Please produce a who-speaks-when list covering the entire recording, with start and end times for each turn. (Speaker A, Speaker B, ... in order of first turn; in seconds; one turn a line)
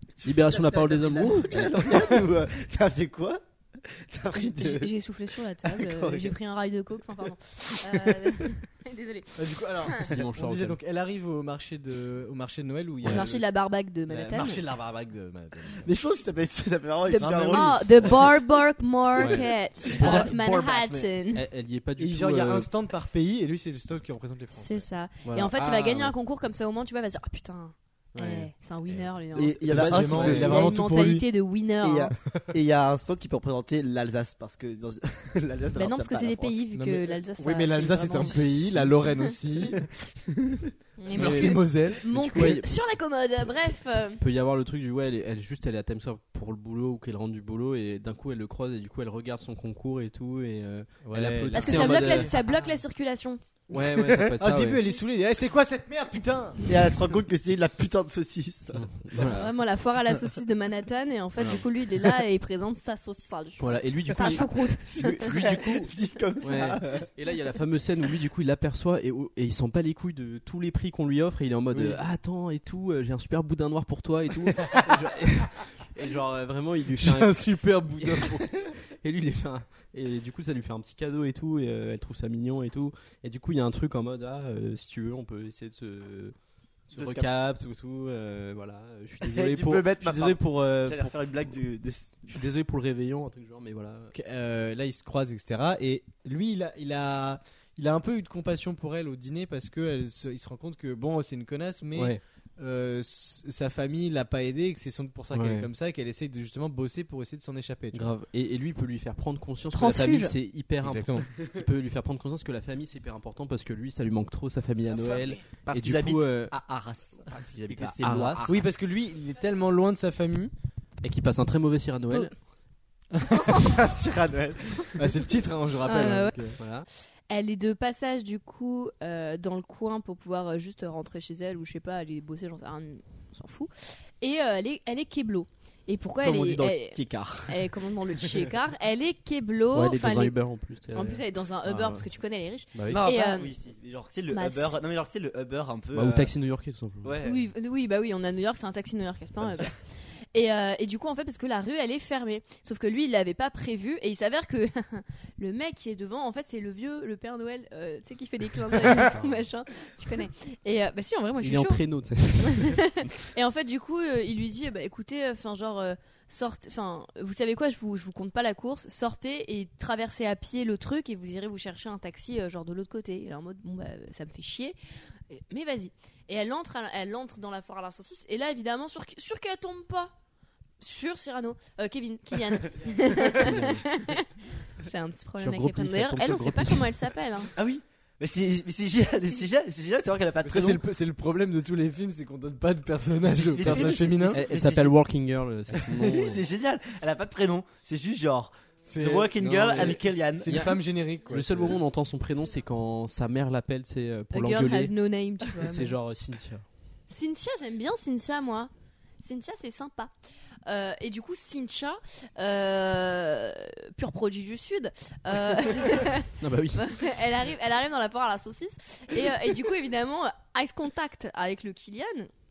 Speaker A: 0.2-4.9
Speaker B: 0.2-2.1
Speaker C: 4.5-10.0
Speaker A: 5.6-6.3
Speaker A: 7.8-8.2
Speaker D: 9.3-13.5
Speaker B: 10.0-10.8
Speaker C: 13.1-14.6
Speaker D: 14.1-15.9
Speaker A: 15.8-18.3
Speaker C: 17.1-21.4
Speaker D: 17.1-18.2
Speaker B: 19.2-22.7
Speaker D: 19.9-20.3
Speaker D: 22.0-25.4
Speaker C: 24.5-32.1
Speaker B: 25.3-26.1
Speaker B: 28.1-28.5
Speaker A: 29.3-30.7
Speaker B: 29.6-30.5
Speaker D: 29.7-31.3
Speaker A: 31.8-36.6
Speaker C: 35.8-38.5
Speaker D: 36.7-39.8
Speaker A: 39.6-40.7
Speaker C: 41.0-44.2
Speaker D: 41.1-42.6
Speaker B: 41.1-41.6
Speaker B: 42.1-42.7
Speaker B: 44.2-52.3
Speaker D: 51.0-52.5
Speaker C: 51.5-53.4
Speaker B: 53.7-54.8
Speaker D: 54.4-56.6
Speaker A: 56.6-59.4
Speaker B: 58.7-59.5
Speaker C: 59.3-65.4
Speaker B: 61.4-62.0
Speaker B: 63.6-86.3
Speaker A: 64.1-67.1
Speaker D: 71.7-72.0
Speaker D: 77.0-78.4
Speaker B: 86.9-91.5
Speaker A: 86.9-87.3
Speaker A: 89.2-92.4
Speaker B: 92.3-94.1
Speaker D: 94.1-108.1
Speaker B: 101.9-102.2
Speaker B: 105.3-105.7
Speaker B: 107.9-116.5
Speaker C: 109.7-110.3
Speaker D: 110.8-111.3
Speaker A: 114.9-118.7
Speaker B: 117.3-118.5
Speaker D: 118.5-120.5
Speaker B: 121.0-122.3
Speaker D: 123.1-123.6
Speaker C: 123.5-123.8
Speaker A: 123.5-125.1
Speaker D: 124.9-126.6
Speaker C: 125.8-126.3
Speaker B: 126.6-126.9
Speaker C: 127.3-133.7
Speaker C: 134.2-140.3
Speaker A: 136.2-137.7
Speaker B: 139.7-142.1
Speaker C: 140.9-143.5
Speaker B: 142.7-143.0
Speaker A: 142.9-146.3
Speaker C: 144.3-144.8
Speaker B: 145.9-147.2
Speaker A: 147.0-147.5
Speaker C: 147.2-149.8
Speaker A: 149.4-149.7
Speaker C: 150.3-161.8
Speaker B: 158.8-159.4
Speaker B: 161.4-162.8
Speaker C: 162.5-174.8
Speaker C: 175.3-180.1
Speaker C: 180.8-187.5
Speaker B: 183.4-183.8
Speaker B: 185.4-187.0
Speaker A: 187.6-190.8
Speaker D: 190.4-194.4
Speaker A: 193.2-194.9
Speaker B: 193.6-196.4
Speaker A: 195.7-200.8
Speaker D: 198.8-201.8
Speaker B: 199.4-204.9
Speaker C: 204.3-205.9
Speaker B: 205.5-206.6
Speaker C: 207.1-210.1
Speaker C: 210.7-222.3
Speaker B: 216.4-216.9